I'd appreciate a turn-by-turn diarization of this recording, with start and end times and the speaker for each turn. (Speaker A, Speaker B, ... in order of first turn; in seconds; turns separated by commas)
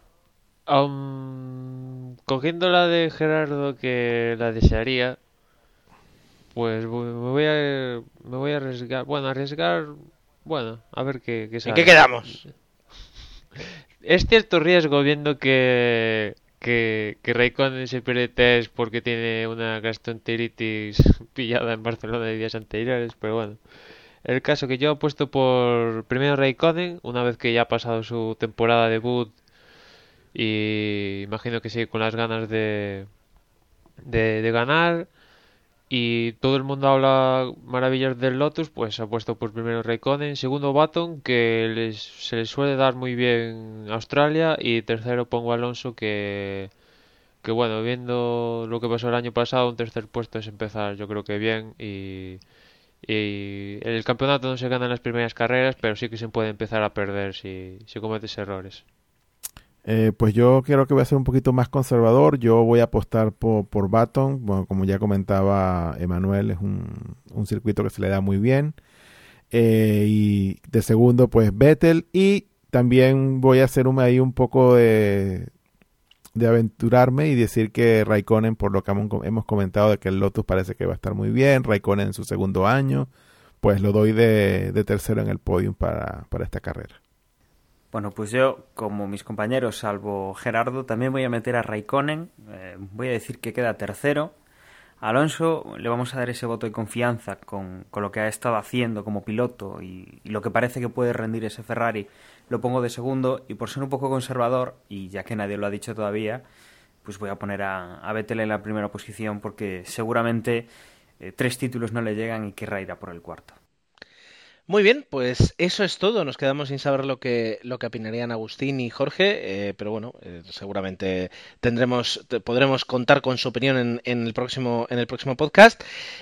Speaker A: 0.7-5.2, Speaker A: 6.5-12.6, Speaker B: 11.6-12.4, Speaker A: 14.0-23.7, Speaker A: 24.2-29.4, Speaker A: 30.3-33.1, Speaker A: 34.0-35.1, Speaker A: 35.9-46.7, Speaker A: 47.4-52.4, Speaker A: 53.0-58.8, Speaker C: 59.8-68.8, Speaker C: 69.5-75.5, Speaker C: 76.3-83.1, Speaker C: 83.6-87.0, Speaker D: 87.9-94.3, Speaker D: 95.0-106.4, Speaker D: 107.0-110.7, Speaker D: 111.2-113.6, Speaker B: 114.7-125.8